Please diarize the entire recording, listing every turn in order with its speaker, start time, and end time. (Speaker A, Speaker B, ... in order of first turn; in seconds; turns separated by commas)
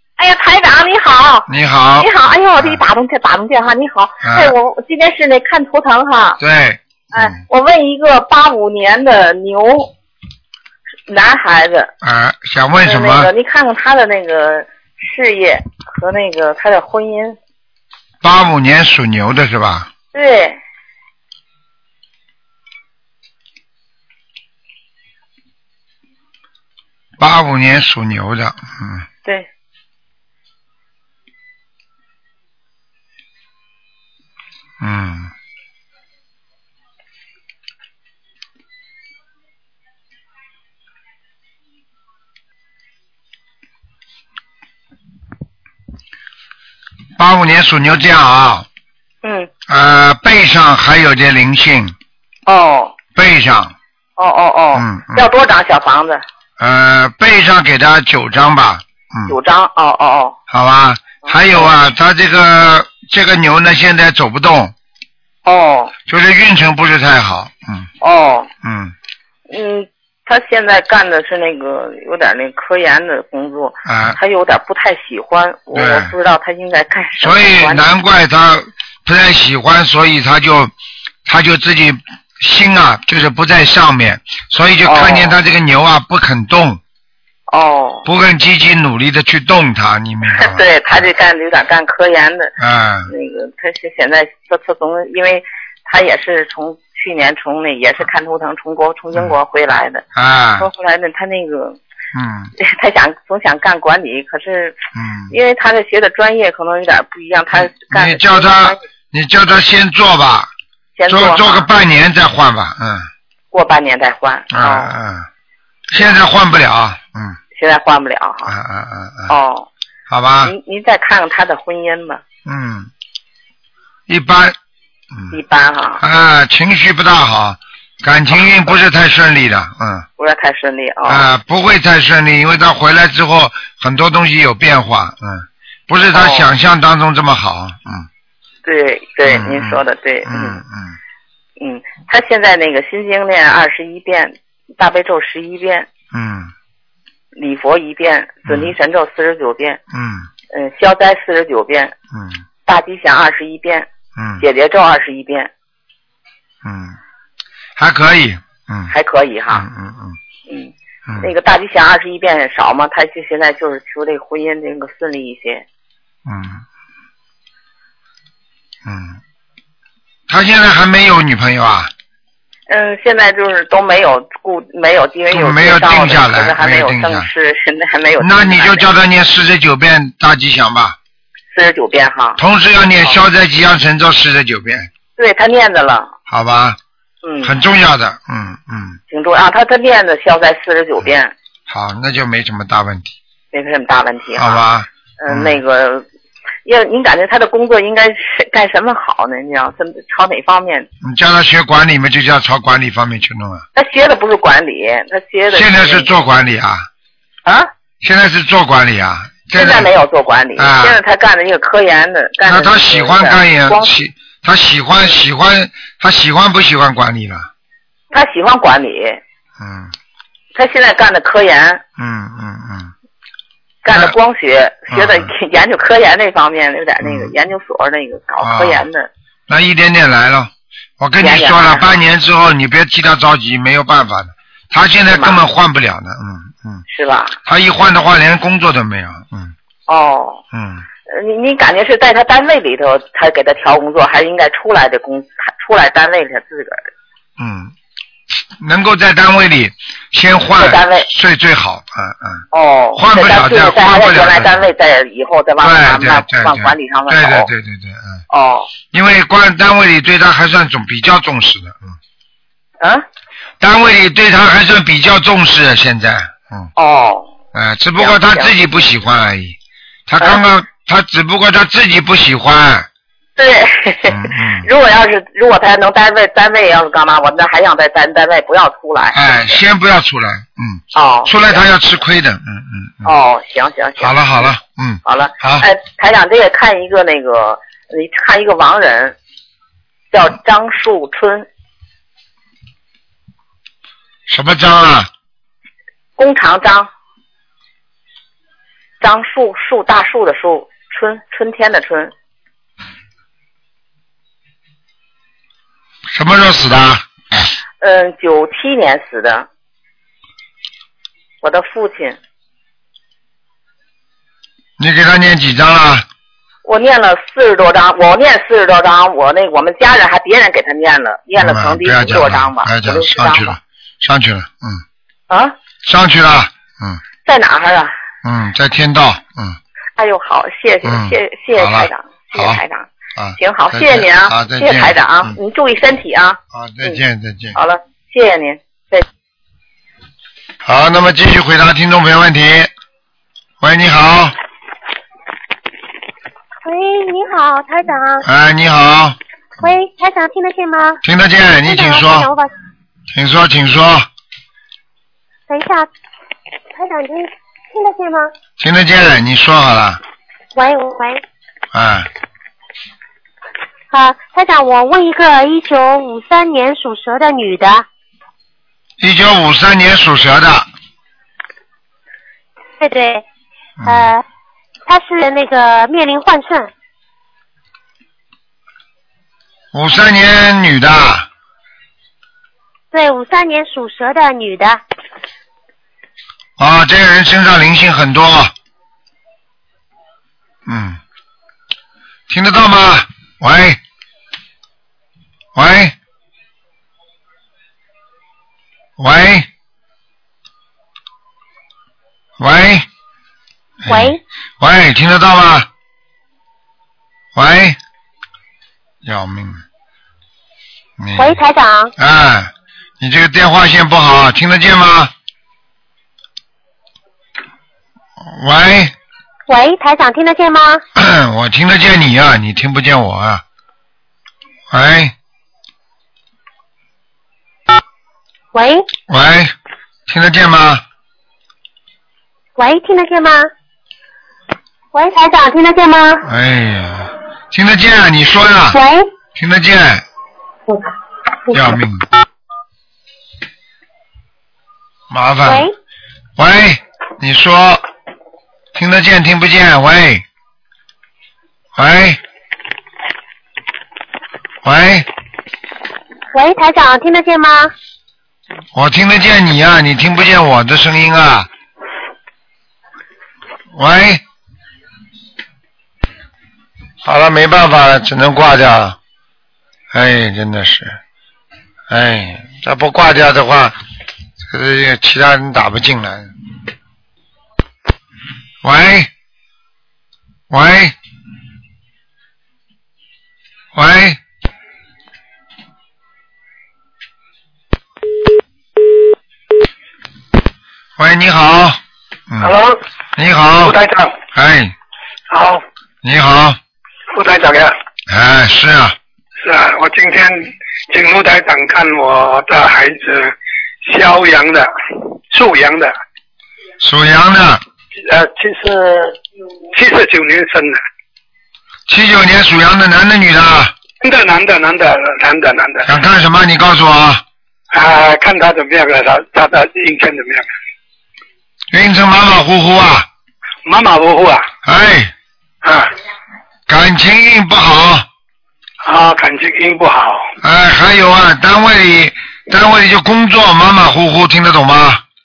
Speaker A: 0.2-6.4, Speaker B: 1.5-2.8, Speaker B: 4.2-4.5, Speaker B: 6.4-7.4, Speaker A: 7.1-9.9, Speaker A: 11.1-11.9, Speaker B: 12.0-13.3, Speaker A: 12.8-17.4, Speaker B: 18.2-19.9, Speaker A: 20.1-20.6, Speaker B: 27.2-29.1, Speaker B: 34.8-35.3, Speaker B: 47.2-48.7, Speaker A: 49.2-49.5, Speaker B: 49.7-51.9, Speaker A: 52.5-52.9, Speaker B: 53.1-53.7, Speaker A: 54.2-56.2, Speaker B: 54.7-55.3, Speaker B: 56.6-59.3, Speaker A: 59.3-60.4, Speaker B: 60.5-64.7, Speaker A: 61.3-61.7, Speaker A: 65.4-65.9, Speaker B: 66.1-67.9, Speaker A: 68.0-68.5, Speaker B: 68.6-68.9, Speaker A: 69.5-77.8, Speaker B: 73.8-74.2, Speaker B: 75.7-76.1, Speaker B: 77.2-80.7, Speaker B: 81.2-86.8, Speaker A: 84.8-85.3, Speaker A: 87.5-88.0, Speaker B: 88.0-91.0, Speaker A: 90.3-92.5, Speaker B: 92.6-93.1, Speaker A: 93.1-100.0, Speaker B: 100.1-100.7, Speaker A: 100.6-101.8, Speaker B: 102.1-102.5, Speaker A: 102.6-104.8, Speaker B: 104.9-105.3, Speaker A: 105.3-108.8, Speaker B: 107.8-110.5, Speaker A: 111.0-111.7, Speaker B: 111.1-113.1, Speaker A: 113.5-114.9, Speaker B: 114.5-115.3, Speaker B: 115.9-117.4, Speaker A: 117.5-118.5, Speaker B: 118.5-119.3, Speaker A: 119.3-119.7, Speaker B: 120.1-120.5, Speaker A: 120.4-122.2, Speaker B: 122.5-122.9, Speaker B: 124.1-124.5, Speaker A: 125.3-126.0, Speaker B: 126.0-130.1, Speaker A: 130.2-131.2, Speaker B: 131.1-138.1, Speaker A: 136.0-136.5, Speaker A: 138.6-140.6, Speaker B: 139.3-141.0, Speaker A: 141.6-145.9, Speaker B: 146.1-146.5, Speaker A: 147.3-149.8, Speaker B: 148.4-148.7, Speaker B: 149.9-150.3, Speaker A: 150.5-151.9, Speaker B: 152.1-152.4, Speaker A: 152.7-155.5, Speaker B: 154.2-154.4, Speaker B: 156.6-157.0, Speaker B: 157.8-158.9, Speaker A: 158.9-159.7, Speaker B: 159.5-160.2, Speaker A: 160.5-165.6, Speaker B: 166.2-166.6, Speaker B: 168.8-169.2, Speaker B: 170.3-171.9, Speaker A: 172.7-178.9, Speaker B: 175.3-177.3, Speaker B: 178.2-180.9, Speaker A: 181.5-182.4, Speaker B: 182.4-184.9, Speaker A: 185.2-186.1, Speaker B: 186.3-186.8, Speaker A: 187.2-187.5, Speaker B: 187.4-189.0, Speaker A: 189.1-191.3, Speaker B: 191.7-193.1, Speaker A: 193.5-194.6, Speaker B: 194.4-195.6, Speaker A: 195.2-196.0, Speaker A: 196.6-200.9, Speaker B: 201.0-203.6, Speaker A: 203.7-206.1, Speaker B: 205.5-206.9, Speaker B: 208.0-209.9, Speaker A: 209.5-213.9, Speaker B: 210.6-211.0, Speaker B: 212.4-217.5, Speaker A: 218.1-219.2, Speaker B: 219.6-219.9, Speaker A: 220.5-221.8, Speaker B: 222.0-222.9, Speaker A: 223.8-229.1, Speaker B: 223.9-224.2, Speaker B: 224.9-225.3, Speaker B: 227.0-227.3, Speaker B: 228.4-228.8, Speaker B: 229.5-236.8, Speaker A: 231.2-232.0, Speaker A: 235.1-235.4, Speaker A: 236.9-237.4, Speaker B: 237.4-239.5, Speaker A: 239.9-240.4, Speaker B: 240.5-240.8, Speaker A: 241.1-246.9, Speaker B: 247.4-247.7, Speaker B: 248.6-252.4, Speaker A: 250.6-251.1, Speaker A: 252.5-257.5, Speaker B: 252.9-254.6, Speaker B: 255.6-258.2, Speaker A: 258.3-258.7, Speaker B: 258.9-261.9, Speaker B: 263.6-266.7, Speaker A: 266.8-267.3, Speaker B: 267.5-269.6, Speaker A: 268.0-268.6, Speaker B: 270.1-272.9, Speaker A: 273.4-279.6, Speaker B: 274.1-274.7, Speaker B: 279.1-283.1, Speaker A: 280.9-281.6, Speaker A: 283.0-284.5, Speaker B: 284.0-285.6, Speaker A: 285.0-289.1, Speaker A: 290.1-291.5, Speaker B: 294.3-295.1, Speaker A: 296.2-296.9, Speaker A: 299.0-302.1, Speaker B: 306.1-307.0, Speaker A: 307.8-309.5, Speaker A: 311.4-312.2, Speaker B: 314.8-316.0, Speaker A: 316.6-323.6, Speaker B: 321.4-324.8, Speaker A: 325.3-325.5, Speaker B: 325.8-327.0, Speaker A: 327.2-327.9, Speaker B: 328.2-329.6, Speaker A: 330.0-337.0, Speaker B: 330.8-332.6, Speaker B: 333.1-335.4, Speaker B: 336.5-337.6, Speaker A: 337.5-339.0, Speaker B: 340.6-342.7, Speaker B: 343.6-344.3, Speaker C: 346.6-348.2, Speaker B: 348.2-349.2, Speaker C: 349.6-351.0, Speaker B: 351.0-352.3, Speaker C: 351.6-352.5, Speaker B: 353.1-354.1, Speaker C: 355.5-355.9, Speaker C: 356.7-358.3, Speaker B: 358.6-360.0, Speaker C: 360.5-361.2, Speaker B: 361.7-362.1, Speaker C: 363.9-367.8, Speaker B: 369.0-370.7, Speaker C: 372.8-373.2, Speaker B: 373.8-374.1, Speaker C: 373.9-374.2, Speaker C: 374.9-376.7, Speaker B: 379.7-381.3, Speaker C: 382.9-384.8, Speaker B: 386.6-388.5, Speaker B: 390.6-391.0, Speaker B: 392.3-393.8, Speaker B: 395.5-395.9, Speaker B: 399.0-399.5, Speaker B: 402.4-402.9, Speaker B: 403.8-405.7, Speaker C: 403.9-404.2, Speaker B: 407.3-407.8, Speaker B: 409.0-409.6, Speaker B: 411.0-411.4, Speaker C: 411.2-411.9, Speaker B: 412.0-415.1, Speaker B: 418.2-418.9, Speaker C: 419.5-420.8, Speaker B: 420.9-423.4, Speaker B: 424.7-425.1, Speaker C: 428.5-428.9, Speaker B: 429.1-429.5, Speaker B: 430.1-430.8, Speaker C: 432.6-433.5, Speaker C: 434.9-436.2, Speaker B: 436.2-438.8, Speaker C: 438.7-439.1, Speaker B: 439.3-440.0, Speaker B: 441.5-442.0, Speaker B: 445.1-445.7, Speaker C: 445.4-445.7, Speaker B: 446.4-447.8, Speaker B: 448.7-450.2, Speaker B: 451.8-452.2, Speaker B: 454.6-455.1, Speaker C: 456.3-457.7, Speaker B: 458.7-461.5, Speaker B: 463.7-464.2, Speaker B: 467.0-469.0, Speaker B: 469.9-471.0, Speaker B: 471.9-473.7, Speaker B: 474.4-476.3, Speaker B: 478.6-479.1, Speaker B: 480.5-480.9, Speaker B: 483.7-484.2, Speaker B: 491.0-491.8, Speaker D: 492.4-492.8, Speaker B: 493.1-493.8, Speaker D: 493.6-494.1, Speaker B: 494.3-494.7, Speaker D: 495.3-495.6, Speaker B: 496.0-496.6, Speaker D: 497.1-497.7, Speaker B: 498.1-498.9, Speaker D: 499.4-504.7, Speaker D: 505.3-505.9, Speaker B: 506.8-507.6, Speaker D: 508.0-509.2, Speaker D: 509.7-510.8, Speaker B: 511.9-513.7, Speaker D: 514.0-515.9, Speaker B: 515.8-517.2, Speaker D: 517.7-520.5, Speaker B: 521.7-523.1, Speaker D: 523.6-524.4, Speaker B: 524.6-525.1, Speaker D: 525.6-525.9, Speaker B: 526.7-528.0, Speaker D: 528.8-530.2, Speaker B: 530.4-535.0